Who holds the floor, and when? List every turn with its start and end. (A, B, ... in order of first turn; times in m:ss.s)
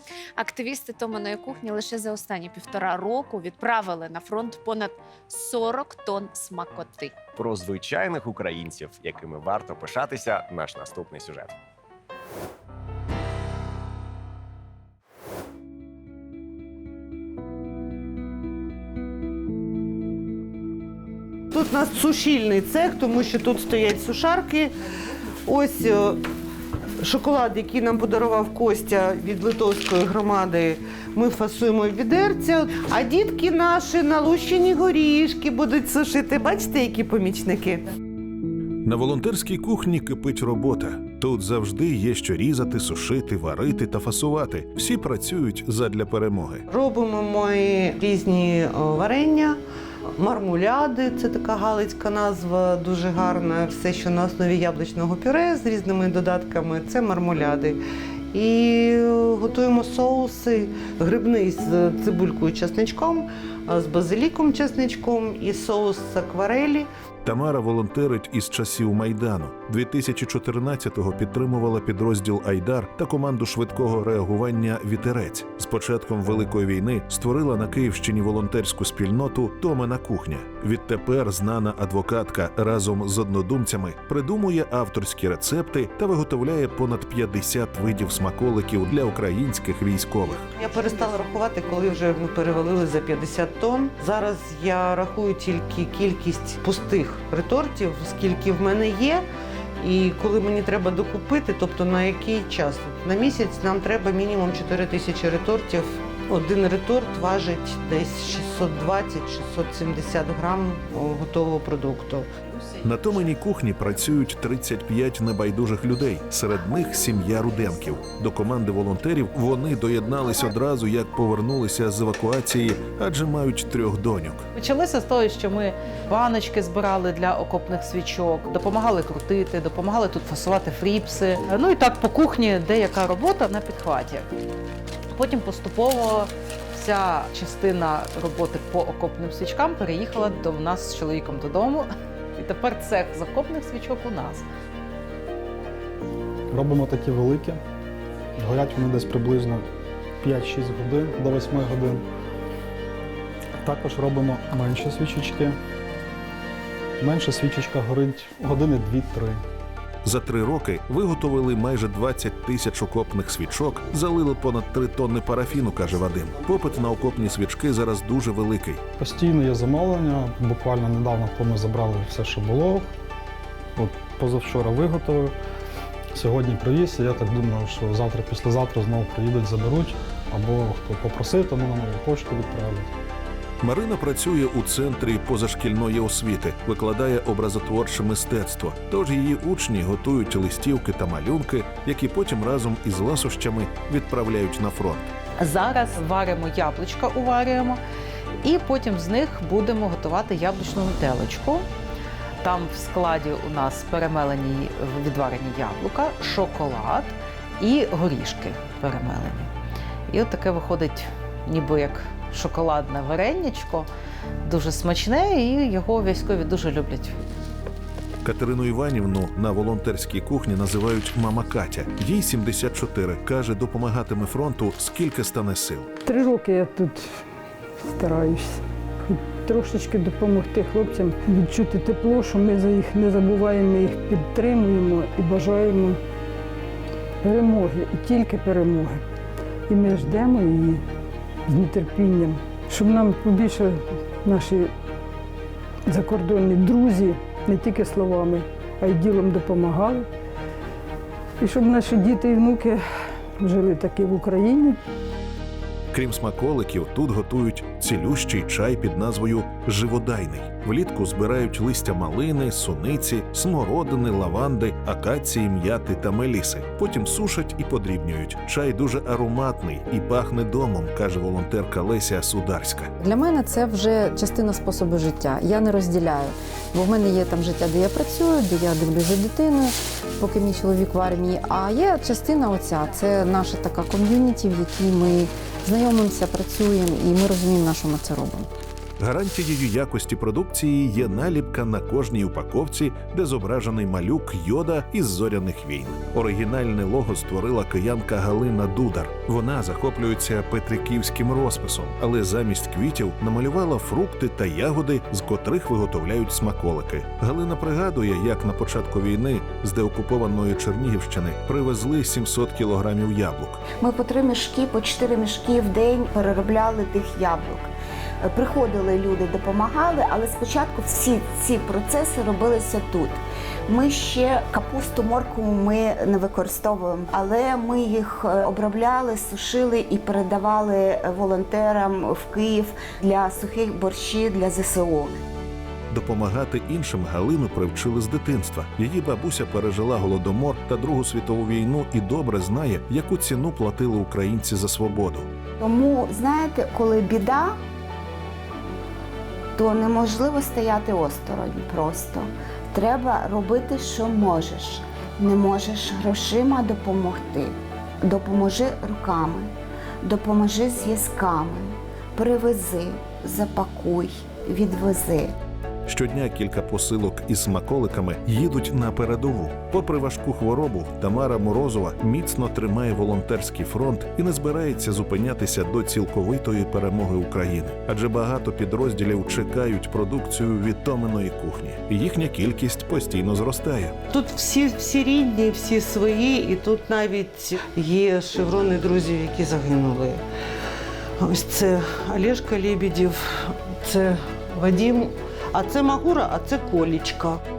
0:00.4-0:07.2 A
0:07.3-0:11.6 B
0:21.5-0:24.7 C
0:25.4-0:26.2 C
0:27.0-0:37.8 C
0:38.8-0:46.6 D
0:46.7-0:49.6 C
0:50.2-0:57.8 C
0:58.3-1:06.9 C
1:07.2-1:30.4 D
1:30.6-1:39.2 C
1:39.8-1:52.3 C
1:52.8-2:04.5 D
2:04.5-2:14.3 E
2:15.1-2:24.5 E
2:26.5-2:27.6 F
2:28.4-2:29.6 F
2:30.2-2:32.0 F
2:33.6-2:35.6 F
2:37.0-2:39.4 F
2:40.0-2:48.8 D
2:49.0-2:52.9 F
2:53.8-2:55.3 F
2:56.1-3:02.9 F
3:03.6-3:15.1 D
3:15.4-3:17.8 E
3:18.4-3:21.7 E
3:22.4-3:29.5 E
3:30.1-3:33.9 E
3:34.4-3:37.2 E
3:38.2-3:45.9 D
3:46.0-3:47.0 G
3:47.8-3:56.0 G
3:57.2-3:59.0 G
3:59.7-4:00.8 G
4:01.5-4:04.7 G
4:05.8-4:10.1 G
4:11.4-4:12.8 G
4:13.4-4:14.8 G
4:15.9-4:32.9 D
4:33.0-4:48.5 H
4:49.0-5:13.6 D
5:13.8-5:17.7 I
5:18.2-5:35.1 I
5:35.9-5:45.3 D
5:45.6-5:47.5 I
5:49.6-5:59.5 I
6:00.0-6:05.3 I
6:05.8-6:23.9 D
6:24.1-6:30.2 C
6:31.2-6:37.4 C